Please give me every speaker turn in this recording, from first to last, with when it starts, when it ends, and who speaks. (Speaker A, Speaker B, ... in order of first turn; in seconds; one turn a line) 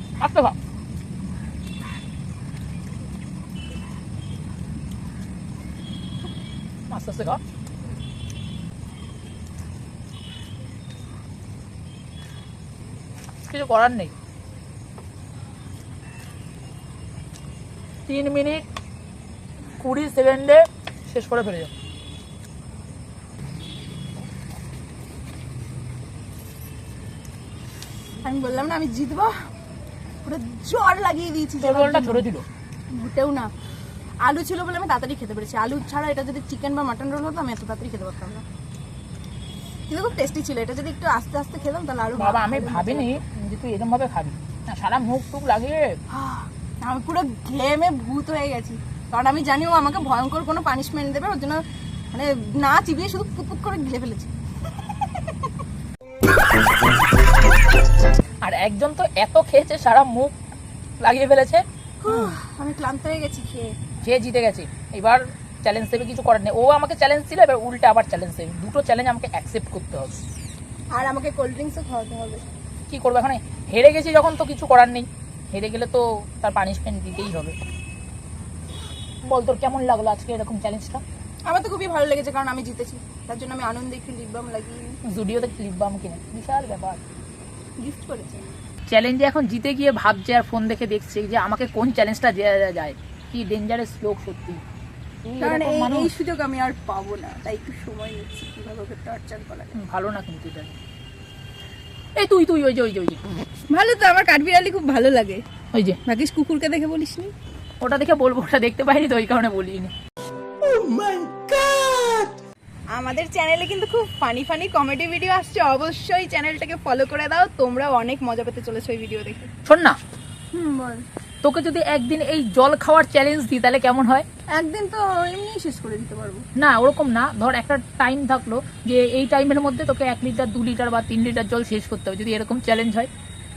Speaker A: 0.2-0.6
Speaker A: 6.9-7.4
Speaker A: 13.5-14.1
Speaker A: 18.1-18.6
Speaker A: 19.8-21.7
Speaker B: 28.2-29.3
Speaker B: 30.2-32.2
Speaker A: 31.6-32.5
Speaker B: 32.9-33.5
Speaker B: 34.2-38.4
Speaker B: 39.9-43.2
Speaker A: 42.1-46.0
Speaker B: 46.1-54.3
Speaker A: 58.4-60.3
Speaker A: 61.0-62.3
Speaker B: 62.0-63.7
Speaker A: 64.0-70.2
Speaker B: 70.9-72.4
Speaker A: 72.9-77.5
Speaker A: 79.3-81.0
Speaker B: 81.5-84.9
Speaker A: 85.1-87.0
Speaker B: 87.8-88.4
Speaker A: 88.9-94.6
Speaker A: 95.2-96.1
Speaker B: 95.4-99.8
Speaker A: 99.7-100.8
Speaker A: 102.2-103.2
Speaker B: 103.7-105.4
Speaker A: 105.7-106.0
Speaker B: 106.0-107.3
Speaker A: 107.8-109.9
Speaker B: 110.9-111.4
Speaker B: 112.9-119.5
Speaker A: 119.7-120.0
Speaker B: 120.5-121.0
Speaker A: 121.4-124.2
Speaker B: 124.5-126.5
Speaker A: 126.6-133.1